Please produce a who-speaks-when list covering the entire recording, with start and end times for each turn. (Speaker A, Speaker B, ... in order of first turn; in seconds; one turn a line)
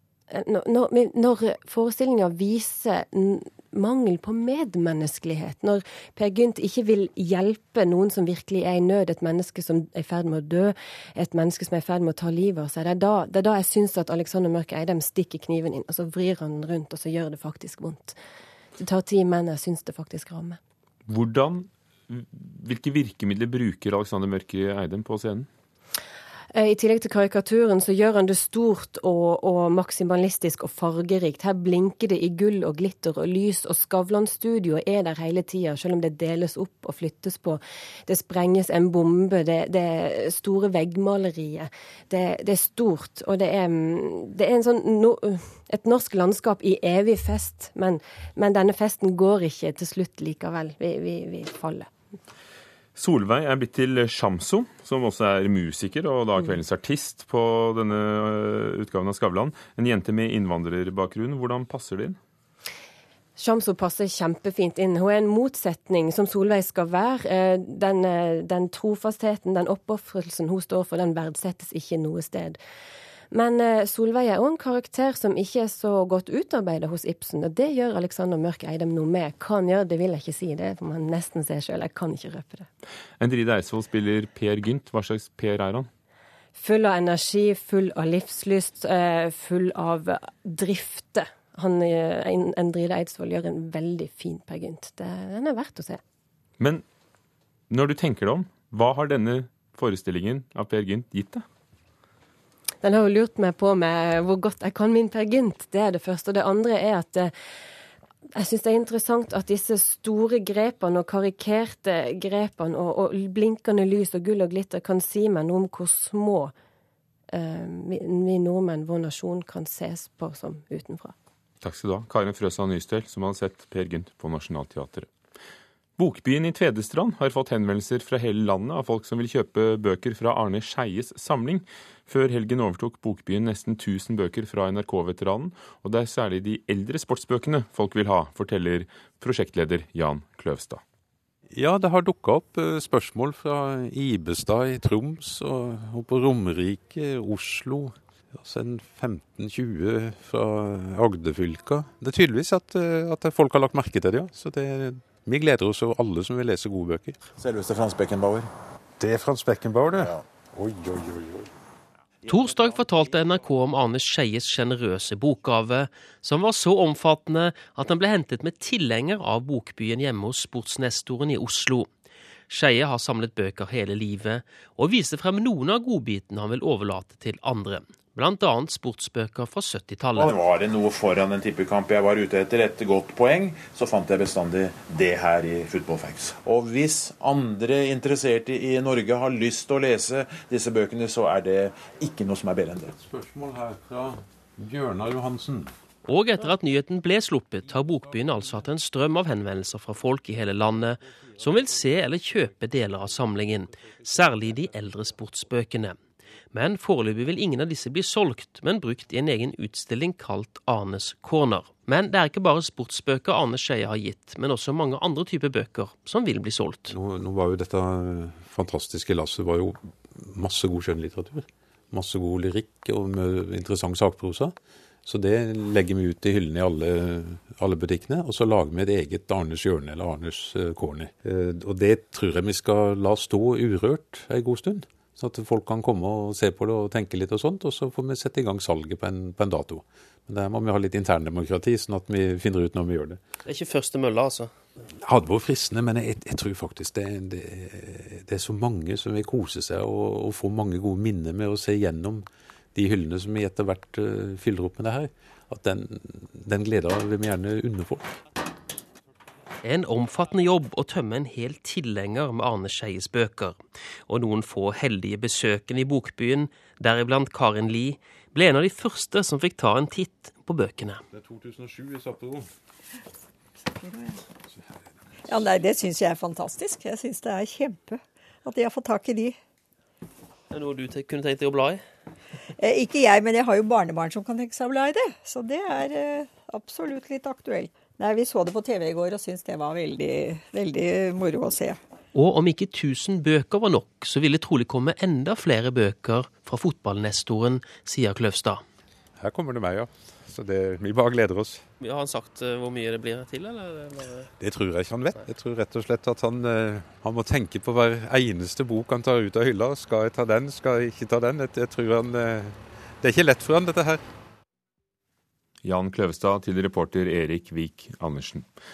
Speaker A: 0.3-18.2
Speaker A: 18.8-20.6
Speaker B: 21.1-25.5
Speaker A: 26.5-51.9
Speaker B: 53.0-62.2
Speaker A: 63.4-72.6
Speaker A: 73.3-82.7
Speaker B: 83.2-85.9
Speaker A: 86.6-96.0
Speaker B: 96.6-96.8
Speaker B: 97.7-101.4
Speaker A: 102.8-107.3
Speaker A: 108.3-116.5
Speaker A: 117.3-121.1
Speaker B: 121.6-125.1
Speaker B: 126.0-140.8
Speaker C: 141.5-157.2
Speaker D: 157.4-158.5
Speaker C: 159.0-161.5
Speaker D: 160.0-160.2
Speaker E: 162.2-171.9
Speaker E: 172.5-180.3
Speaker D: 180.2-192.9
Speaker C: 192.9-195.7
Speaker E: 196.0-206.0
Speaker E: 206.5-216.9
Speaker C: 216.9-243.2
Speaker E: 243.4-244.5
Speaker C: 245.0-258.1
Speaker E: 259.6-271.0
Speaker C: 271.1-272.5
Speaker F: 273.8-274.2
Speaker F: 275.3-279.4
Speaker E: 280.5-281.8
Speaker F: 282.6-291.8
Speaker E: 292.1-298.6
Speaker C: 299.2-301.6
Speaker E: 301.8-304.3
Speaker C: 304.4-314.0
Speaker B: 315.6-318.4